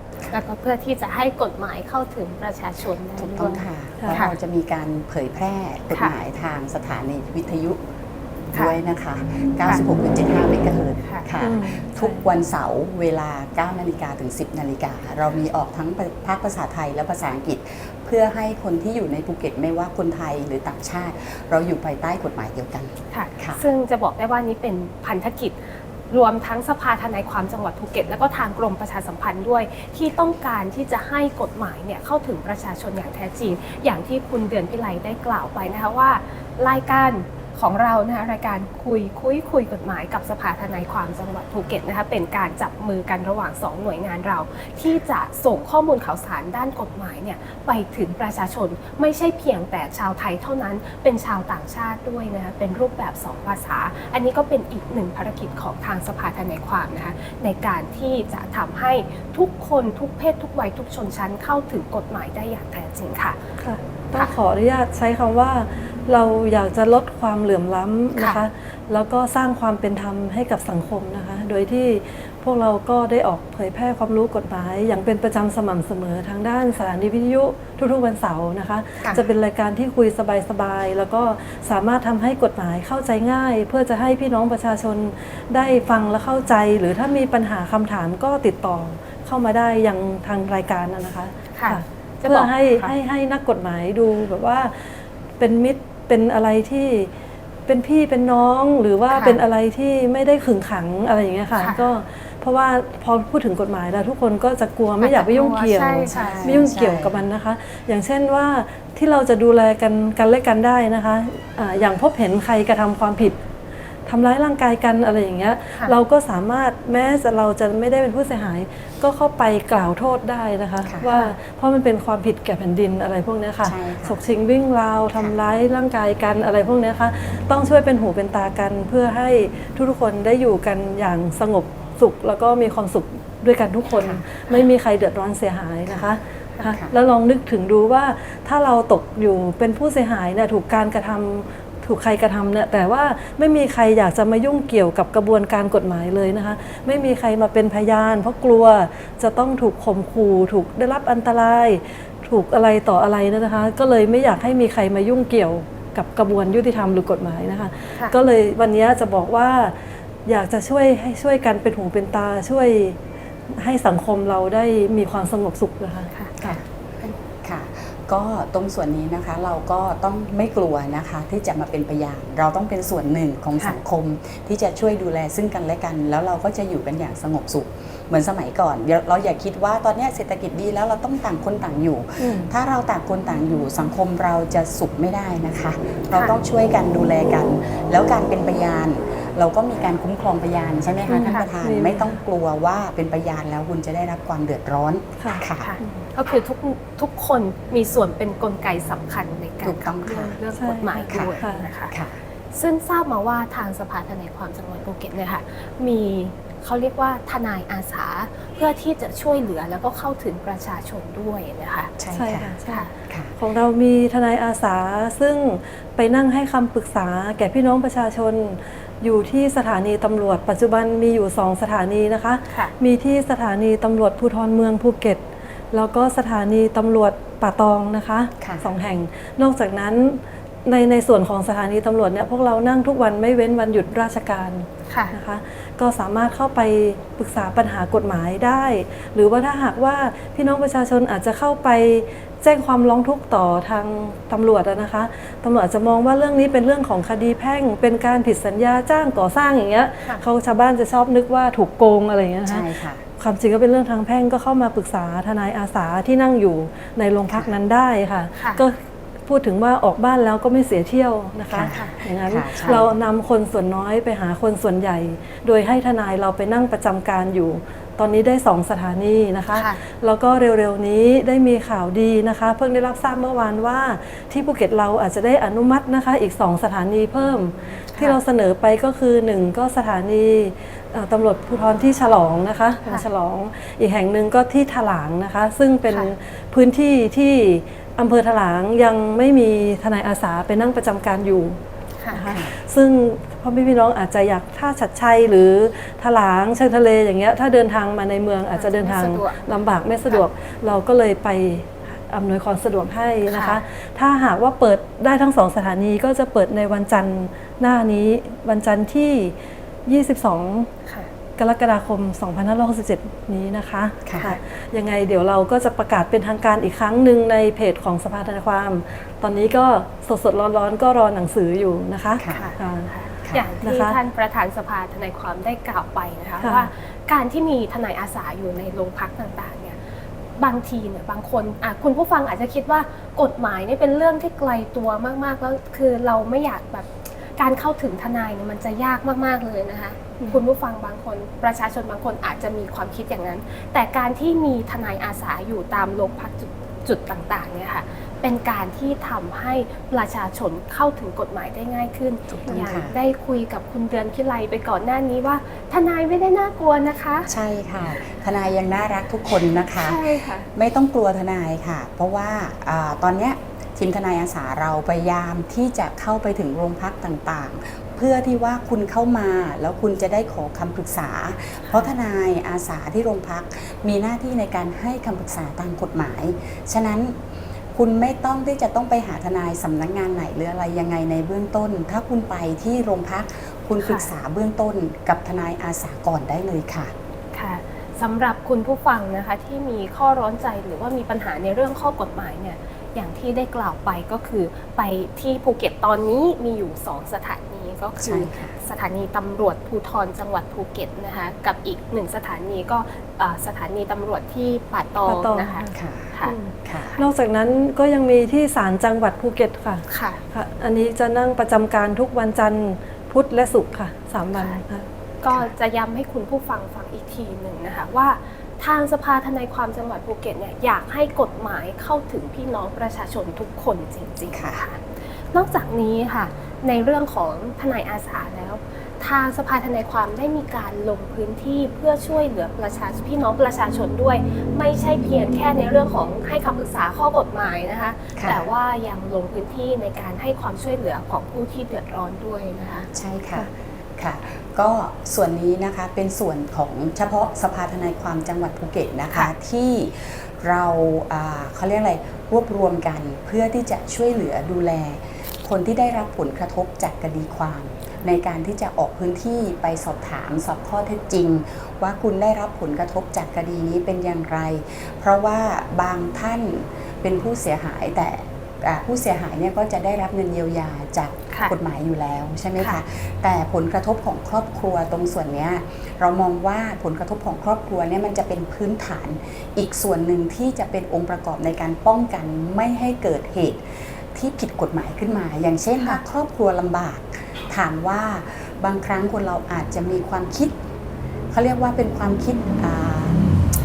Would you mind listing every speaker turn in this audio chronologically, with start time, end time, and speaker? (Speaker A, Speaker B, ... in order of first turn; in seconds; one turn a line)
Speaker A: 0.3-4.4
Speaker B: 3.2-7.8
Speaker B: 8.5-23.6
Speaker C: 11.4-12.3
Speaker A: 23.1-63.4
Speaker C: 63.6-97.1
Speaker A: 91.5-92.9
Speaker C: 97.7-113.4
Speaker A: 99.1-99.4
Speaker A: 101.5-101.8
Speaker A: 105.0-106.7
Speaker B: 106.0-107.2
Speaker C: 114.0-163.0
Speaker B: 123.6-124.2
Speaker B: 134.0-134.2
Speaker B: 136.7-136.9
Speaker C: 163.5-166.6
Speaker B: 166.4-166.6
Speaker B: 167.4-195.7
Speaker C: 182.2-182.5
Speaker C: 191.1-192.2
Speaker C: 195.2-196.0
Speaker A: 195.6-201.9
Speaker B: 199.6-200.4
Speaker C: 200.5-201.7
Speaker B: 201.1-202.2
Speaker A: 202.5-211.9
Speaker B: 212.0-212.5
Speaker C: 212.1-291.6
Speaker B: 213.1-213.3
Speaker B: 228.4-228.7
Speaker A: 234.9-235.2
Speaker B: 252.4-253.0
Speaker A: 258.4-258.6
Speaker B: 261.5-262.9
Speaker A: 261.7-262.0
Speaker A: 269.5-269.8
Speaker A: 277.2-278.2
Speaker A: 285.9-286.1
Speaker A: 292.0-292.3
Speaker C: 292.1-310.7
Speaker B: 292.2-292.5
Speaker A: 298.5-300.2
Speaker A: 303.3-303.6
Speaker C: 311.4-322.9
Speaker B: 314.1-314.4
Speaker B: 322.2-322.5
Speaker A: 322.3-329.8
Speaker B: 323.2-323.5
Speaker C: 323.6-324.0
Speaker C: 326.4-326.7
Speaker A: 330.4-357.3
Speaker B: 352.3-352.9
Speaker B: 357.3-377.2
Speaker A: 359.8-360.5
Speaker B: 377.7-386.9
Speaker A: 383.8-384.1
Speaker A: 387.3-406.4
Speaker B: 398.0-398.5
Speaker C: 405.1-414.9
Speaker B: 405.7-406.1
Speaker B: 406.6-407.0
Speaker A: 409.9-410.2
Speaker A: 414.3-414.6
Speaker A: 415.2-442.9
Speaker B: 424.3-424.6
Speaker B: 438.1-438.5
Speaker B: 442.9-490.5
Speaker B: 491.3-493.2